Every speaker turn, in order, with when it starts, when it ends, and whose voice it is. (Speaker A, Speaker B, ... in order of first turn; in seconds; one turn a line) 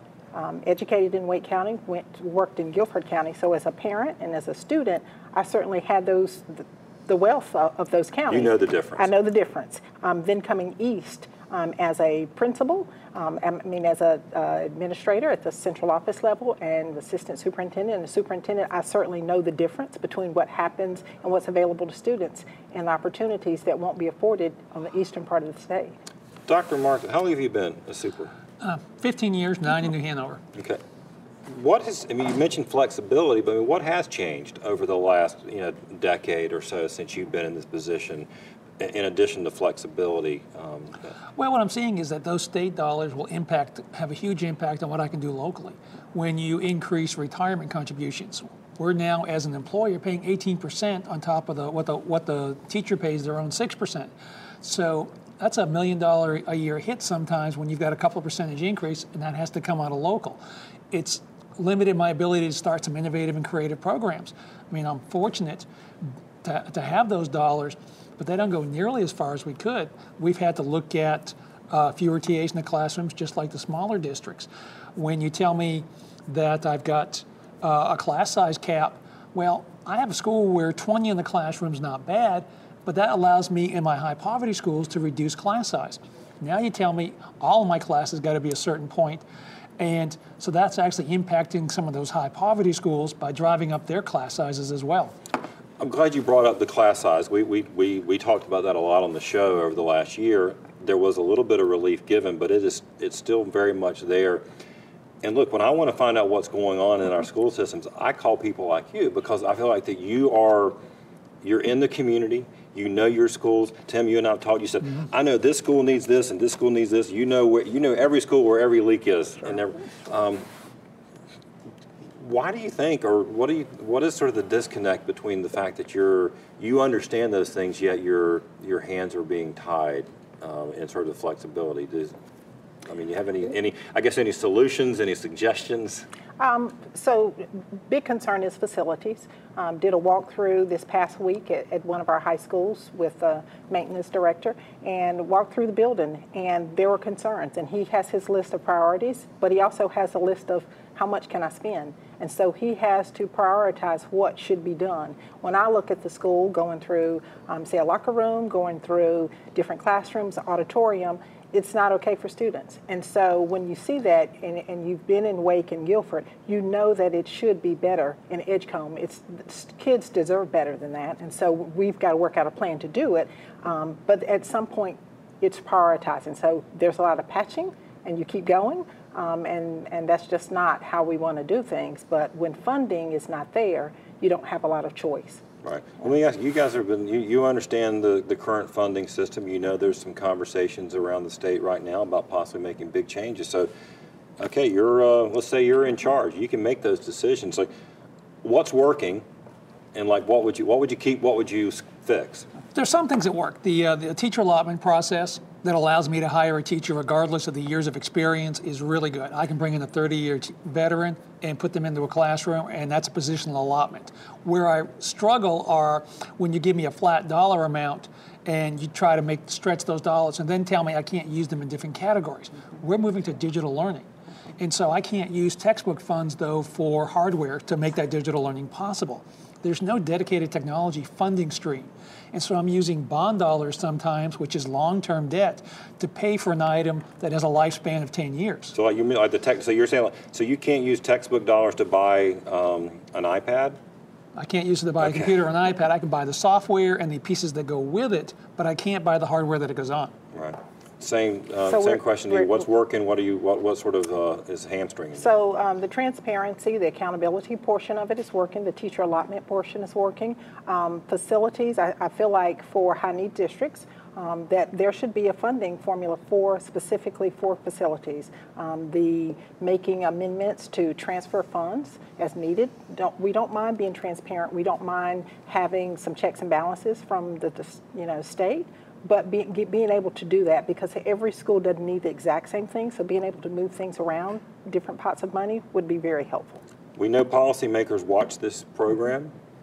Speaker A: 0.3-26.0
Speaker B: 8.3-9.1
Speaker B: 26.5-28.3
Speaker C: 28.6-30.4
Speaker B: 30.5-30.8
Speaker B: 31.4-38.3
Speaker B: 38.8-41.1
Speaker C: 41.4-54.1
Speaker C: 54.6-60.4
Speaker C: 60.9-65.7
Speaker C: 66.4-89.2
Speaker C: 89.8-95.1
Speaker B: 95.8-104.4
Speaker B: 105.2-110.8
Speaker B: 111.4-120.5
Speaker B: 122.2-132.1
Speaker B: 132.8-136.1
Speaker A: 136.4-185.4
Speaker B: 185.6-193.7
Speaker B: 194.4-197.7
Speaker B: 198.4-199.2
Speaker B: 199.9-202.5
Speaker C: 202.7-224.1
Speaker C: 224.6-238.7
Speaker B: 238.7-243.8
Speaker C: 244.3-250.1
Speaker B: 245.0-245.4
Speaker B: 250.3-255.3
Speaker A: 251.7-252.6
Speaker A: 255.2-286.6
Speaker B: 287.0-289.3